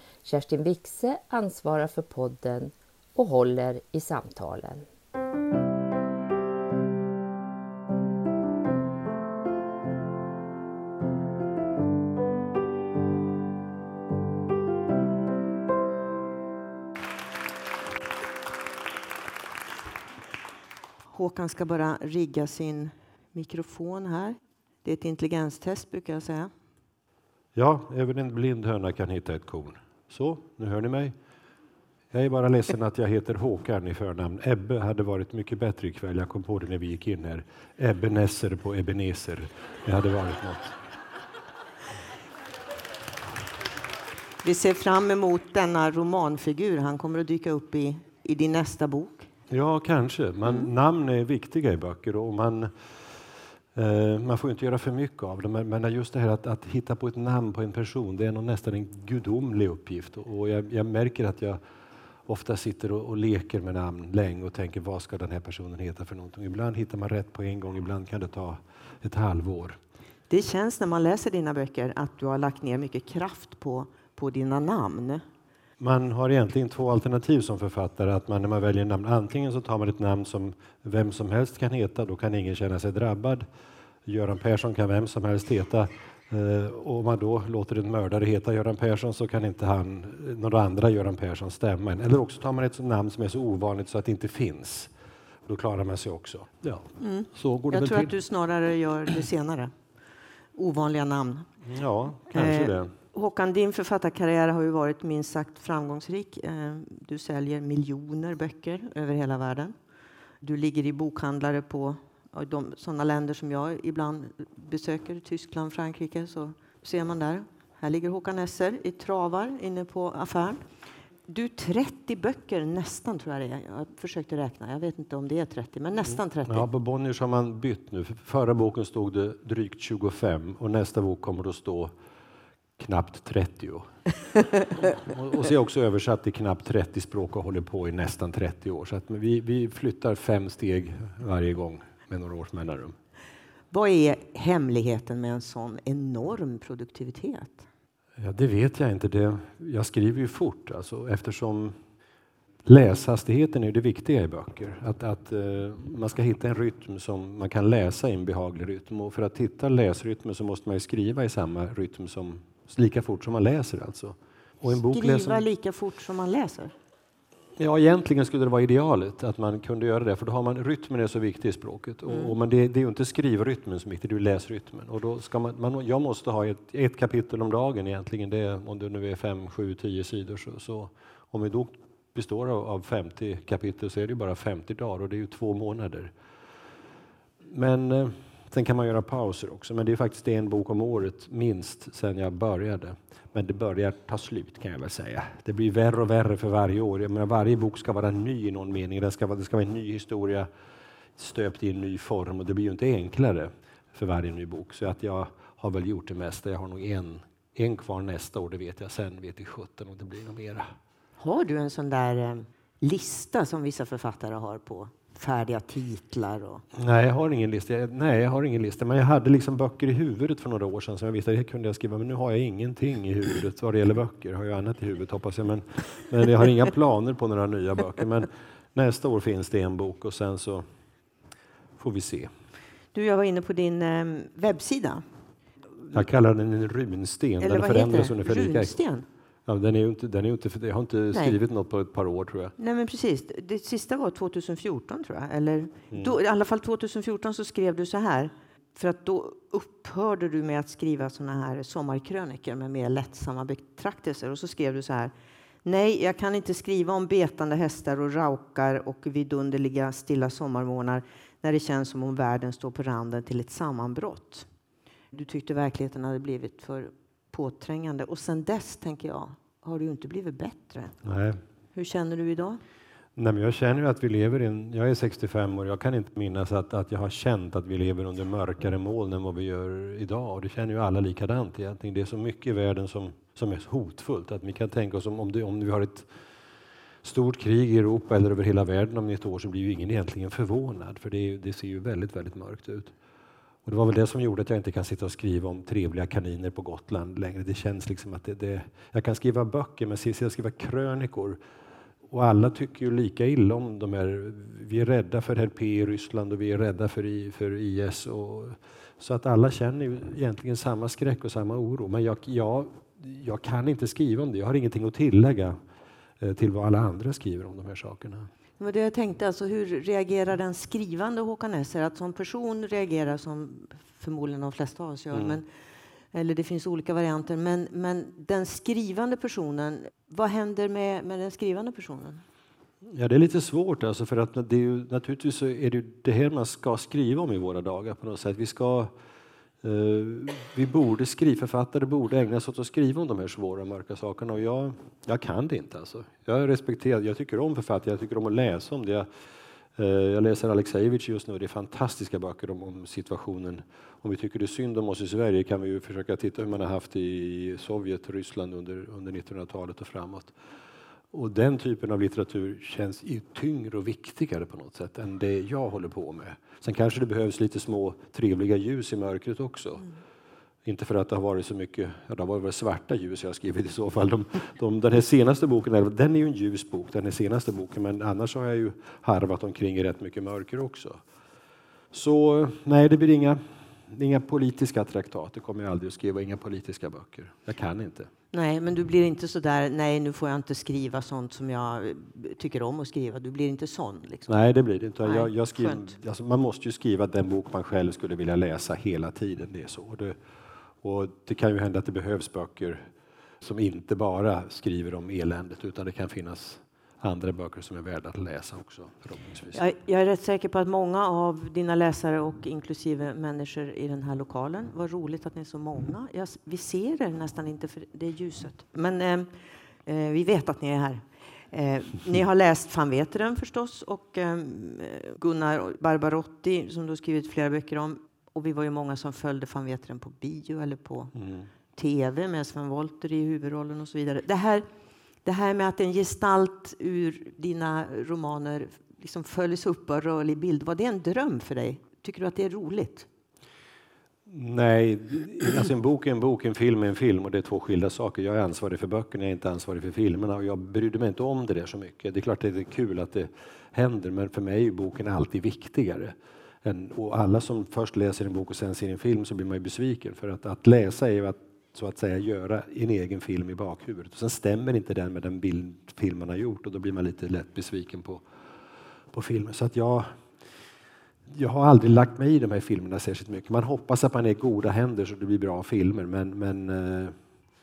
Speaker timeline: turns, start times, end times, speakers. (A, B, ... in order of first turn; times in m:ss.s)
0:00.2-0:04.8 A
0:21.1-0:26.5 B
0:27.5-0:31.1 C
0:32.1-0:40.8 C
0:44.4-0:49.3 B
0:49.5-0:52.7 C
0:53.7-1:01.6 C
1:02.3-1:09.8 C
1:10.3-1:15.2 B
1:15.8-1:23.4 C
1:24.0-1:34.9 C
1:35.4-1:38.1 C
1:37.0-1:39.7 B
1:40.6-1:41.5 B
1:41.6-1:42.9 C
1:42.3-1:49.7 B
1:50.4-2:00.6 B
2:01.3-2:06.6 B
2:06.1-2:11.9 C
2:12.8-2:13.9 C
2:14.7-2:23.0 C
2:23.7-2:27.7 B
2:28.2-2:31.8 C
2:32.6-2:45.4 C
2:44.6-2:46.7 B
2:47.6-3:06.1 C
2:52.1-2:52.3 B
3:07.5-3:20.5 C
3:21.2-3:30.7 C
3:31.2-3:36.6 B
3:36.7-3:50.6 C
3:51.8-3:52.3 C
3:52.9-3:55.0 B
3:55.9-3:58.8 C
3:57.4-3:59.0 B
3:59.4-4:02.5 C
4:02.6-4:15.1 B
4:15.6-4:24.5 B
4:25.1-4:30.9 B
4:31.0-4:31.4 C
4:31.7-4:32.6 B
4:33.2-4:46.1 C
4:47.0-4:52.9 C
4:53.6-5:01.4 C
5:02.1-5:15.6 C
5:16.2-5:18.3 C
5:18.6-5:25.5 B
5:25.1-5:25.4 C
5:26.1-5:32.2 B
5:32.8-5:38.9 C
5:39.6-5:49.1 C
5:49.8-6:00.3 C
6:01.1-6:09.9 C
6:10.6-6:21.0 C
6:21.9-6:28.1 C
6:28.3-6:34.4 B
6:34.3-6:40.2 C
6:35.0-6:35.9 B
6:40.8-6:42.8 C
6:43.4-6:49.6 C
6:49.5-6:59.3 B
6:59.8-7:11.1 B
7:11.2-7:11.4 C
7:11.7-7:14.6 B
7:15.2-7:23.1 B
7:24.2-7:48.2 C
7:49.1-7:50.1 C
7:51.3-7:57.1 C